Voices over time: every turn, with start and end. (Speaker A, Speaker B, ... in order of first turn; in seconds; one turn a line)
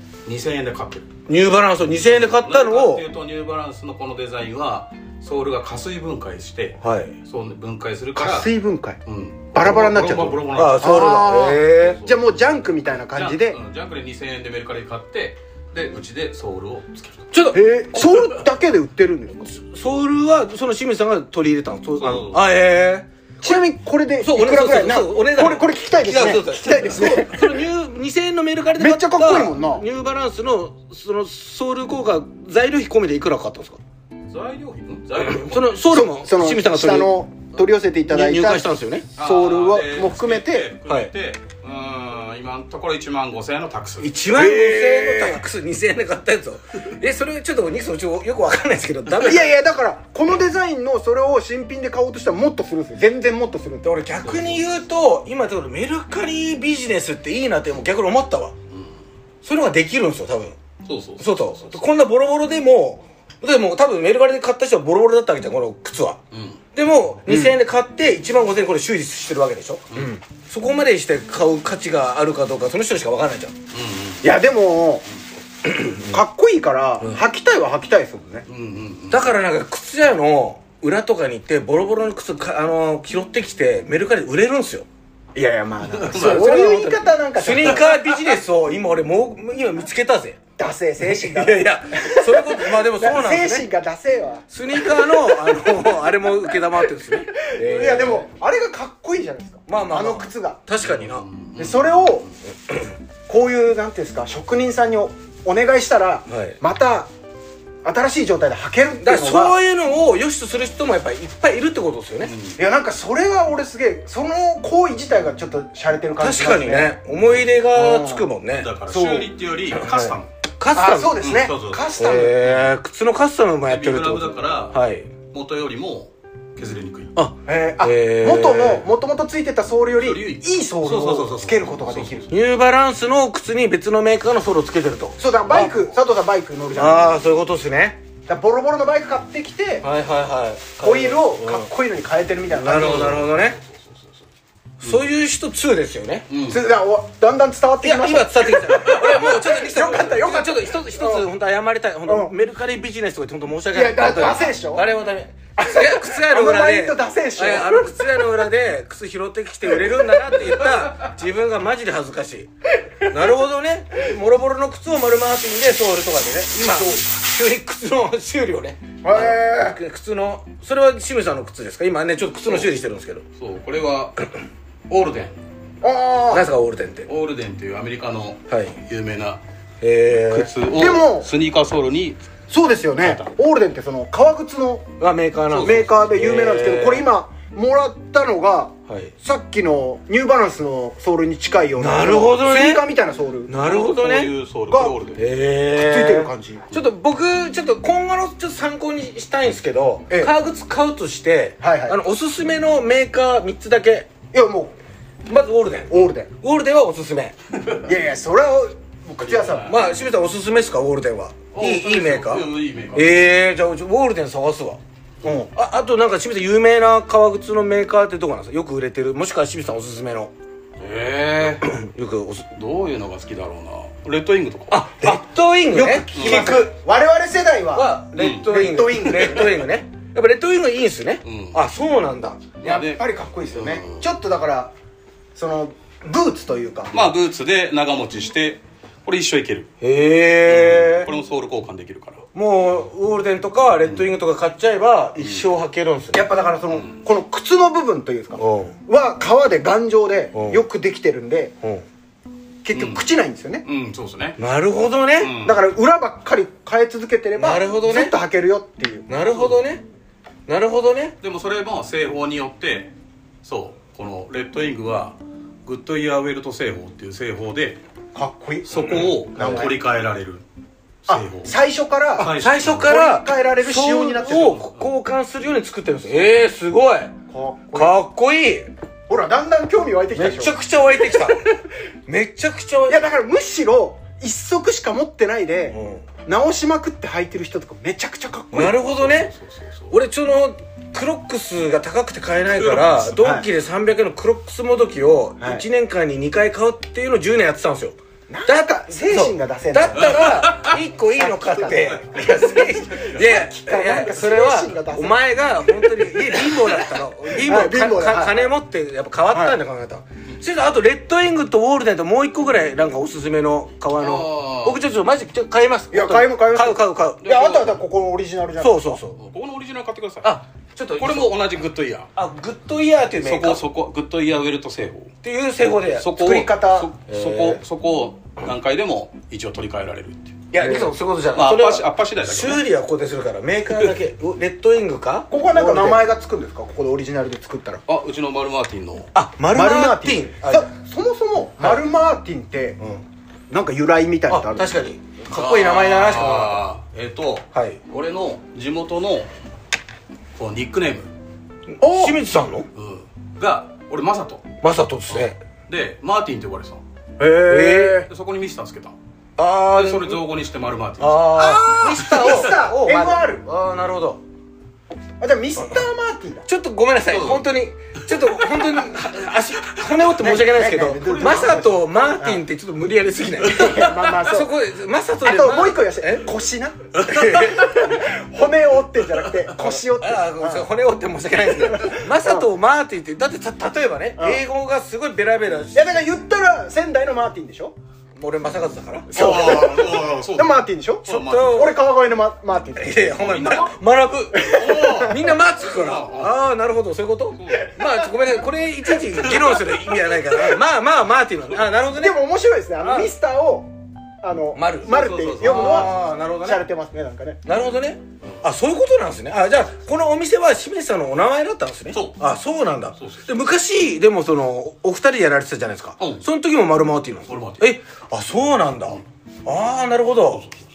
Speaker A: 0.2-1.1
Speaker B: 1.3-3.0
Speaker A: 1.9-8.5
Speaker B: 6.8-7.1
Speaker C: 8.2-9.0
Speaker A: 9.1-17.3
Speaker C: 9.5-13.6
Speaker B: 10.5-12.0
Speaker B: 17.3-18.2
Speaker C: 17.5-19.5
Speaker B: 19.4-23.6
Speaker A: 22.0-22.4
Speaker C: 23.4-27.6
Speaker B: 24.2-33.8
Speaker C: 28.8-29.9
Speaker A: 34.3-35.7
Speaker B: 35.2-37.1
Speaker C: 35.9-40.7
Speaker B: 38.1-39.1
Speaker A: 39.2-44.2
Speaker B: 40.9-41.1
Speaker B: 44.0-49.5
Speaker C: 44.3-45.4
Speaker C: 49.2-54.6
Speaker B: 53.8-58.5
Speaker A: 58.7-59.0
Speaker B: 59.4-60.6
Speaker A: 60.8-61.8
Speaker B: 61.2-66.2
Speaker A: 66.3-66.6
Speaker B: 66.8-73.5
Speaker C: 67.3-67.5
Speaker A: 73.7-74.3
Speaker C: 74.2-75.0
Speaker B: 75.7-76.2
Speaker C: 75.8-78.5
Speaker A: 78.5-79.3
Speaker B: 79.1-84.8
Speaker C: 85.3-87.9
Speaker A: 85.9-86.5
Speaker B: 86.1-90.4
Speaker C: 90.6-96.5
Speaker B: 91.0-93.7
Speaker B: 94.5-98.3
Speaker C: 97.3-100.6
Speaker B: 99.7-101.3
Speaker A: 100.8-102.2
Speaker C: 101.5-102.3
Speaker C: 103.3-107.1
Speaker B: 106.3-106.6
Speaker C: 107.8-109.6
Speaker B: 109.0-112.3
Speaker A: 112.2-112.6
Speaker C: 112.5-117.0
Speaker B: 116.2-118.7
Speaker C: 117.7-118.3
Speaker A: 118.6-120.3
Speaker C: 118.9-119.3
Speaker B: 119.7-121.2
Speaker C: 120.7-122.4
Speaker A: 121.2-121.9
Speaker B: 122.0-125.1
Speaker A: 123.7-124.8
Speaker A: 125.3-127.1
Speaker B: 127.2-128.9
Speaker C: 127.5-132.3
Speaker A: 129.9-132.3
Speaker B: 132.3-135.8
Speaker C: 135.2-137.2
Speaker B: 136.8-138.0
Speaker C: 138.3-139.9
Speaker B: 139.8-141.7
Speaker C: 140.8-143.2
Speaker B: 142.5-143.6
Speaker A: 142.7-144.2
Speaker B: 144.8-146.3
Speaker A: 146.3-146.6
Speaker C: 146.5-151.3
Speaker B: 147.8-162.5
Speaker A: 148.8-149.3
Speaker C: 152.1-152.3
Speaker C: 153.7-154.8
Speaker C: 155.6-158.3
Speaker C: 159.7-160.4
Speaker B: 163.1-173.2
Speaker C: 166.6-167.0
Speaker C: 169.0-169.8
Speaker A: 173.3-174.3
Speaker A: 174.9-175.4
Speaker C: 175.8-176.5
Speaker B: 176.3-177.1
Speaker A: 177.1-179.4
Speaker B: 178.5-178.8
Speaker B: 179.8-180.5
Speaker A: 180.3-182.2
Speaker C: 180.7-181.3
Speaker C: 182.5-184.9
Speaker A: 183.0-183.3
Speaker B: 185.0-187.1
Speaker A: 185.5-185.9
Speaker C: 185.6-193.5
Speaker B: 188.9-189.1
Speaker B: 191.8-192.9
Speaker B: 193.5-194.3
Speaker A: 193.6-195.2
Speaker C: 194.7-195.0
Speaker B: 195.2-204.1
Speaker C: 195.8-196.6
Speaker C: 201.6-202.0
Speaker C: 204.3-204.8
Speaker B: 205.3-207.3
Speaker C: 205.9-206.3
Speaker C: 207.8-209.8
Speaker A: 209.2-209.8
Speaker B: 209.7-214.8
Speaker A: 211.5-213.2
Speaker C: 215.2-215.5
Speaker B: 215.5-220.3
Speaker A: 220.8-221.7
Speaker B: 221.6-222.5
Speaker A: 222.5-224.8
Speaker B: 224.7-226.7
Speaker C: 225.0-229.6
Speaker A: 226.1-226.6
Speaker B: 227.7-232.5
Speaker A: 228.2-228.5
Speaker A: 231.2-231.6
Speaker A: 232.6-234.0
Speaker C: 232.6-234.7
Speaker C: 235.3-237.0
Speaker A: 236.9-239.7
Speaker B: 239.8-241.1
Speaker A: 240.4-242.3
Speaker B: 242.3-246.2
Speaker A: 245.2-245.5
Speaker C: 246.1-251.5
Speaker B: 248.4-248.7
Speaker B: 250.3-250.6
Speaker C: 252.6-253.7
Speaker A: 252.7-253.1
Speaker A: 253.7-254.4
Speaker B: 254.4-255.4
Speaker A: 255.2-255.7
Speaker C: 255.4-259.1
Speaker B: 257.4-258.1
Speaker B: 259.1-259.8
Speaker A: 259.2-259.6
Speaker B: 260.5-261.1
Speaker A: 261.2-262.9
Speaker A: 263.4-267.8
Speaker C: 268.1-269.7
Speaker A: 268.7-270.4
Speaker B: 269.4-269.6
Speaker A: 271.1-271.5
Speaker C: 271.1-274.6
Speaker A: 272.1-272.9
Speaker B: 272.2-277.1
Speaker A: 274.3-274.9
Speaker C: 277.3-278.0
Speaker B: 277.7-278.7
Speaker C: 279.1-280.6
Speaker B: 280.1-281.4
Speaker B: 282.1-283.1
Speaker C: 282.9-288.9
Speaker B: 285.7-286.0
Speaker B: 288.5-289.3
Speaker A: 288.7-289.9
Speaker B: 289.9-317.2
Speaker A: 292.5-293.2
Speaker C: 293.2-293.5
Speaker C: 298.3-300.4
Speaker A: 300.0-300.8
Speaker C: 301.1-305.2
Speaker A: 301.9-303.2
Speaker C: 307.3-308.6
Speaker C: 309.3-309.6
Speaker A: 314.0-314.8
Speaker C: 315.9-318.9
Speaker A: 317.2-317.8
Speaker B: 318.6-319.2
Speaker A: 319.2-320.3
Speaker B: 320.2-321.3
Speaker A: 321.0-322.1
Speaker B: 322.1-323.6
Speaker A: 323.2-325.1
Speaker B: 325.2-326.3
Speaker A: 326.0-330.8
Speaker C: 326.1-326.9
Speaker B: 327.1-327.6
Speaker B: 330.5-336.1
Speaker A: 331.3-332.6
Speaker C: 335.3-337.8
Speaker A: 337.9-339.1
Speaker B: 339.1-340.7
Speaker C: 339.5-342.8
Speaker B: 341.6-341.9
Speaker C: 343.5-344.7
Speaker B: 344.3-346.6
Speaker A: 345.3-349.3
Speaker B: 347.5-347.8
Speaker A: 350.4-351.1
Speaker B: 351.7-352.7
Speaker C: 351.8-352.2
Speaker A: 352.8-354.5
Speaker B: 354.6-355.4
Speaker A: 355.1-356.8
Speaker C: 357.2-358.1
Speaker B: 357.5-358.0
Speaker A: 358.0-358.9
Speaker B: 359.4-360.2
Speaker A: 359.7-361.6
Speaker B: 361.0-364.2
Speaker C: 361.3-363.4
Speaker C: 365.2-366.5
Speaker B: 366.5-376.3
Speaker A: 367.1-367.4
Speaker A: 368.4-368.8
Speaker C: 370.2-372.4
Speaker A: 370.9-371.6
Speaker C: 373.4-374.5
Speaker C: 375.2-380.7
Speaker B: 377.0-377.8
Speaker B: 379.6-386.0
Speaker C: 381.6-382.5
Speaker C: 384.2-384.4
Speaker C: 385.7-387.8
Speaker B: 388.1-389.6
Speaker C: 389.1-393.5
Speaker A: 389.1-391.7
Speaker B: 391.1-391.8
Speaker B: 392.8-402.2
Speaker A: 393.1-393.8
Speaker C: 394.3-395.1
Speaker A: 394.5-396.3
Speaker A: 397.4-397.8
Speaker A: 399.2-400.5
Speaker C: 401.9-403.7
Speaker B: 402.8-403.1
Speaker C: 404.2-407.4
Speaker B: 404.5-406.6
Speaker A: 404.9-405.9
Speaker B: 407.4-420.4
Speaker A: 411.9-412.2
Speaker A: 413.0-413.3
Speaker A: 416.0-416.2
Speaker A: 417.3-417.6
Speaker A: 420.3-420.6